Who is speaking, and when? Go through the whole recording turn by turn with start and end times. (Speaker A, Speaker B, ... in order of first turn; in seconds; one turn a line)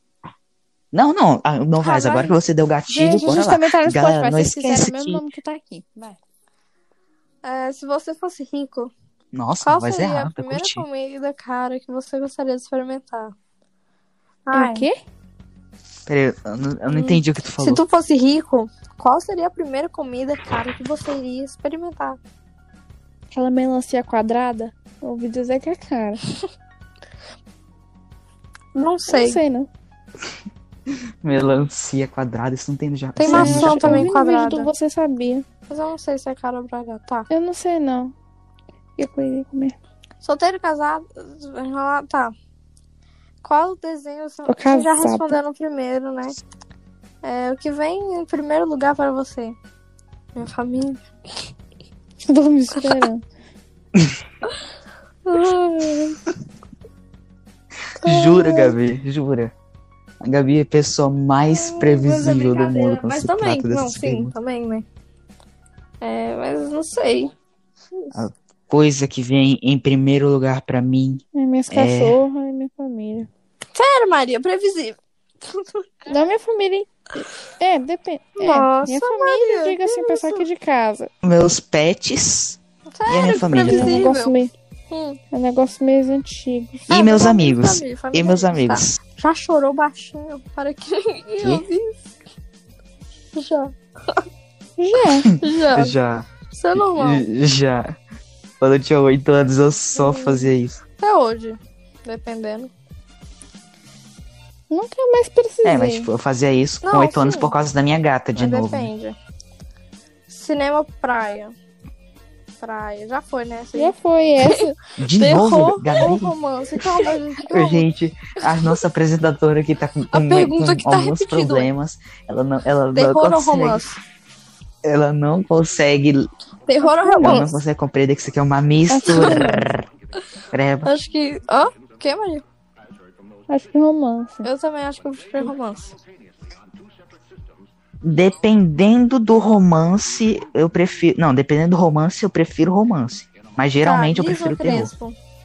Speaker A: 0.9-5.2
Speaker B: 1.8-2.3
Speaker B: 2.9-6.2
Speaker C: 7.4-8.9
Speaker A: 9.3-10.8
Speaker C: 9.6-13.3
Speaker C: 14.5-14.9
Speaker B: 14.5-15.0
Speaker A: 16.1-17.8
Speaker C: 16.9-22.2
Speaker B: 23.3-26.2
Speaker C: 28.8-29.4
Speaker B: 29.1-29.7
Speaker A: 31.2-34.1
Speaker C: 33.2-34.7
Speaker B: 33.3-35.5
Speaker C: 35.7-37.3
Speaker B: 37.3-38.1
Speaker B: 39.0-39.8
Speaker C: 40.2-42.3
Speaker C: 43.4-46.4
Speaker B: 44.5-45.4
Speaker C: 47.2-49.6
Speaker C: 50.4-51.0
Speaker B: 52.3-53.2
Speaker C: 55.2-56.2
Speaker C: 58.0-58.8
Speaker A: 58.0-59.5
Speaker A: 60.2-64.3
Speaker C: 61.5-64.9
Speaker C: 66.0-67.3
Speaker A: 68.1-72.2
Speaker B: 71.3-73.3
Speaker C: 73.7-75.9
Speaker B: 76.1-81.1
Speaker C: 78.4-80.5
Speaker A: 81.2-84.1
Speaker C: 82.9-84.3
Speaker B: 83.6-84.5
Speaker C: 84.9-85.2
Speaker B: 85.3-86.8
Speaker C: 86.9-92.0
Speaker A: 86.9-89.0
Speaker C: 93.3-94.2
Speaker B: 94.8-95.3
Speaker A: 95.2-98.0
Speaker C: 95.4-96.0
Speaker C: 96.5-97.3
Speaker A: 98.6-100.8
Speaker C: 100.0-100.4
Speaker C: 101.0-102.7
Speaker B: 104.7-106.1
Speaker A: 105.6-108.9
Speaker C: 106.8-107.5
Speaker C: 108.3-109.2
Speaker C: 110.3-111.5
Speaker C: 112.6-117.9
Speaker B: 113.8-114.8
Speaker A: 115.0-116.3
Speaker A: 117.5-123.8
Speaker C: 120.1-121.7
Speaker C: 123.0-124.0
Speaker A: 124.8-126.3
Speaker C: 126.7-127.5
Speaker B: 126.8-127.3
Speaker A: 127.2-129.9
Speaker B: 128.9-129.7
Speaker C: 129.0-129.5
Speaker A: 130.5-130.9
Speaker C: 130.8-132.4
Speaker B: 133.5-134.5
Speaker C: 134.4-136.0
Speaker A: 138.0-144.9
Speaker C: 143.8-145.2